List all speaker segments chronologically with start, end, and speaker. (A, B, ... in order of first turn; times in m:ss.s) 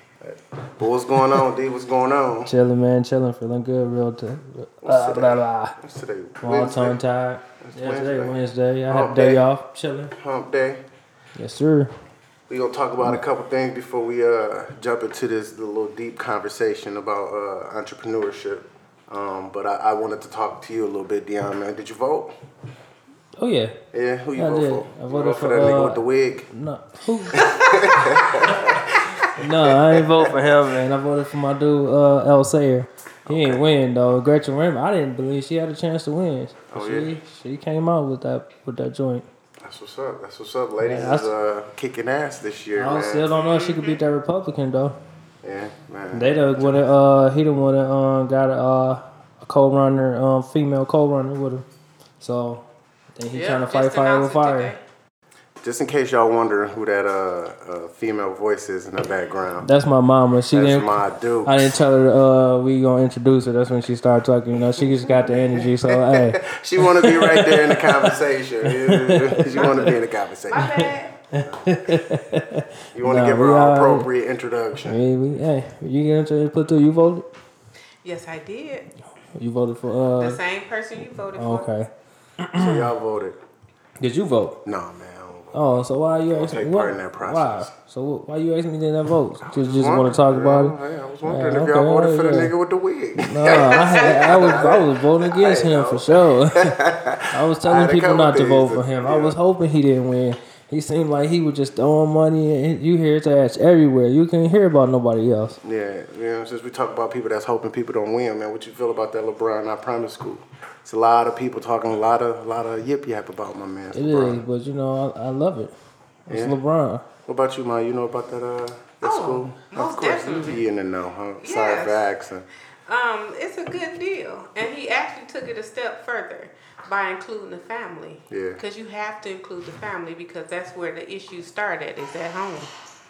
0:00.2-0:02.5 A
0:02.4-0:05.8 B
0:04.8-0:07.0 A
0:06.4-0:10.1 B
0:07.6-0:08.4 A
0:08.9-0:09.4 A
0:10.1-0:10.8 A
0:11.4-0:11.9 B
0:12.5-0:22.3 A
0:23.4-0:23.7 B
0:23.9-0:26.5 A
0:24.4-0:27.4 B
0:27.3-0:30.3 A
0:29.4-0:39.2 B
0:33.2-0:33.6 A
0:36.7-0:37.1 A
0:39.6-0:43.3 A
0:40.8-0:41.3 B
0:42.8-0:45.0 B
0:43.5-0:44.0 C
0:45.4-0:46.7 A
0:46.1-0:51.6 B
0:52.2-0:54.7 B
0:53.3-0:54.8 C
0:55.6-0:59.7 A
0:59.6-1:00.9 B
1:00.5-1:01.8 A
1:01.4-1:09.9 B
1:04.8-1:10.8 A
1:09.5-1:10.0 C
1:10.5-1:11.2 C
1:11.3-1:14.1 B
1:12.9-1:15.0 A
1:14.9-1:17.3 B
1:18.0-1:18.9 C
1:19.4-1:20.4 B
1:20.2-1:21.7 C
1:21.4-1:22.8 B
1:22.6-1:23.4 A
1:24.0-1:24.6 B
1:24.6-1:25.7 A
1:25.5-1:32.5 B
1:26.3-1:27.7 A
1:29.4-1:39.3 A
1:33.2-1:36.8 B
1:37.3-1:45.6 B
1:45.6-1:54.4 A
1:53.9-1:55.7 B
1:56.3-1:57.0 B
1:56.3-1:56.6 A
1:57.3-2:02.5 A
1:59.0-2:00.6 C
2:01.4-2:02.0 C
2:02.9-2:12.7 C
2:08.3-2:08.6 A